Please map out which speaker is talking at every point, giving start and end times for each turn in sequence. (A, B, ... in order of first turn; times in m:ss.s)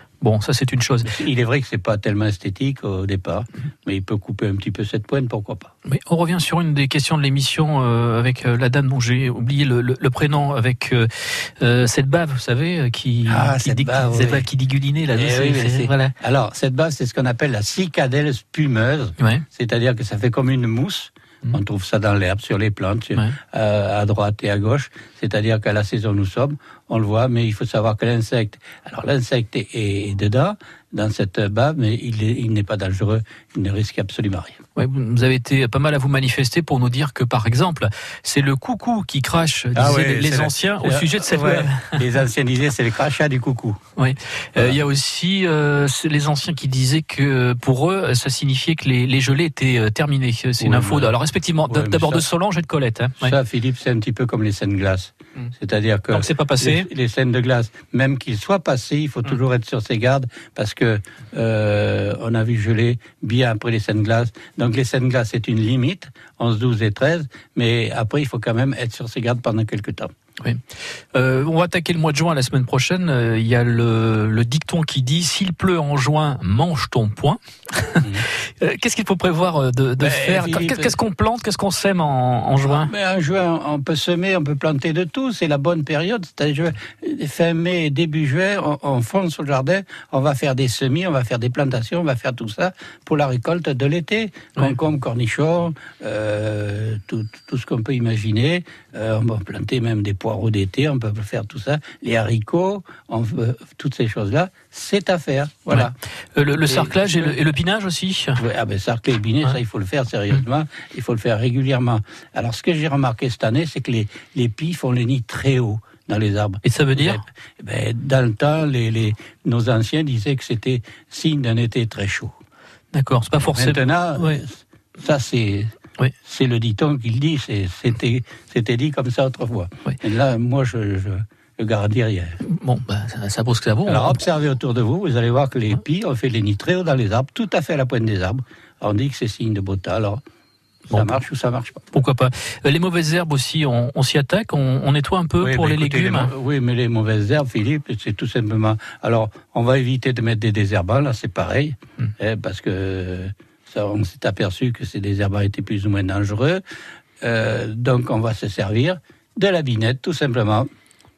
0:00.2-0:01.1 A
0:01.0-0:05.7 B
0:05.9-0:16.1 A
0:13.3-0:14.5 B
0:15.2-0:34.6 B
0:19.2-0:19.4 A
0:34.8-0:42.0 A
0:39.7-0:43.8 B
0:44.0-0:53.3 A
0:50.6-0:51.1 B
0:51.7-0:52.3 B
0:53.2-1:10.1 B
0:56.1-0:56.9 A
1:11.1-1:18.0 A
1:18.6-1:22.9 A
1:20.0-1:21.0 B
1:22.6-1:45.9 B
1:45.7-1:48.4 A
1:46.7-1:47.4 B
1:48.4-2:02.3 B
1:56.6-1:57.2 A
2:02.9-2:04.4 A
2:03.5-2:05.7 B
2:06.2-2:12.4 B
2:12.4-2:14.2 A
2:13.9-2:20.2 B
2:20.9-2:21.8 B
2:20.9-2:21.2 A
2:21.9-2:26.3 A
2:25.4-2:36.6 B
2:37.2-2:40.7 B